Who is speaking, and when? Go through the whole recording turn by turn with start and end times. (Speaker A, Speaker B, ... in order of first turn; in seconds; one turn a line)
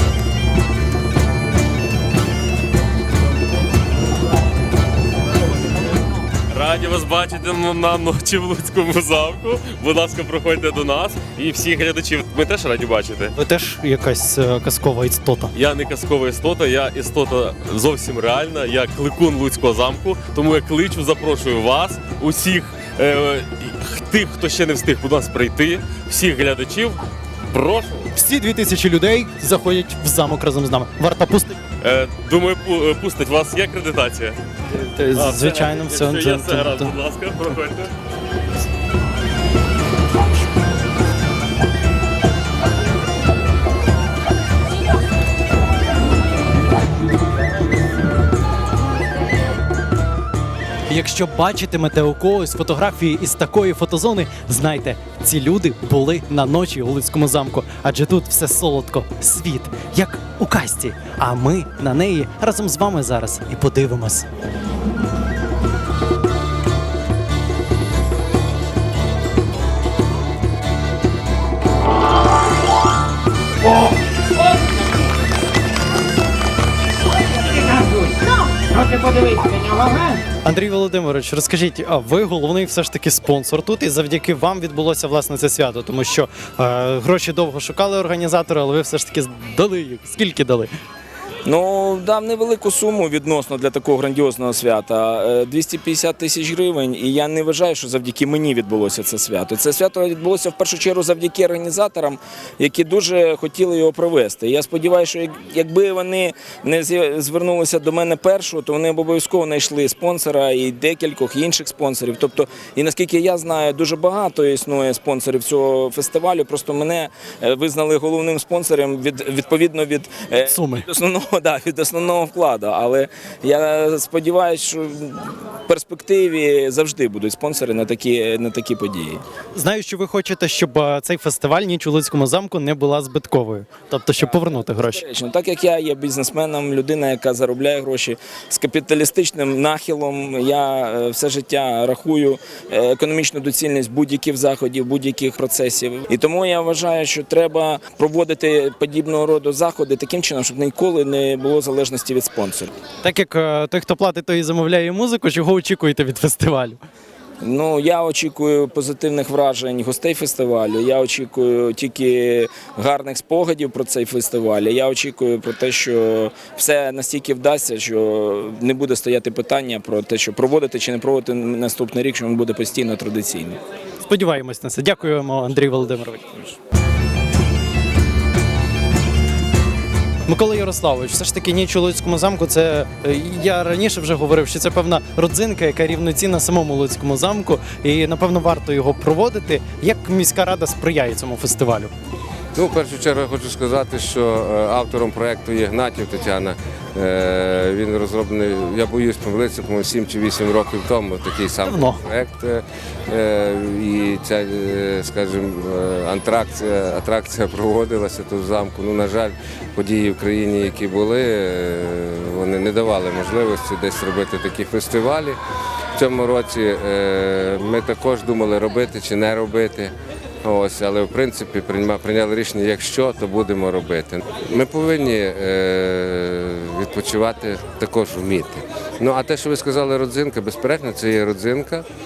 Speaker A: 6.5-13.3
Speaker B: 13.3-15.5
Speaker A: 15.5-27.0
Speaker A: 27.5-28.1
Speaker B: 28.1-31.6
Speaker A: 31.8-34.4
Speaker B: 34.7-36.9
Speaker A: 35.1-37.9
Speaker B: 50.9-64.2
Speaker B: 80.4-90.7
Speaker C: 91.5-129.2
Speaker B: 120.5-120.9
Speaker B: 129.6-135.0
Speaker C: 134.2-152.7
Speaker B: 153.0-156.8
Speaker C: 157.4-173.6
Speaker B: 174.0-176.2
Speaker B: 180.3-191.9
Speaker D: 192.6-215.4
Speaker B: 201.7-202.0
Speaker D: 215.9-231.8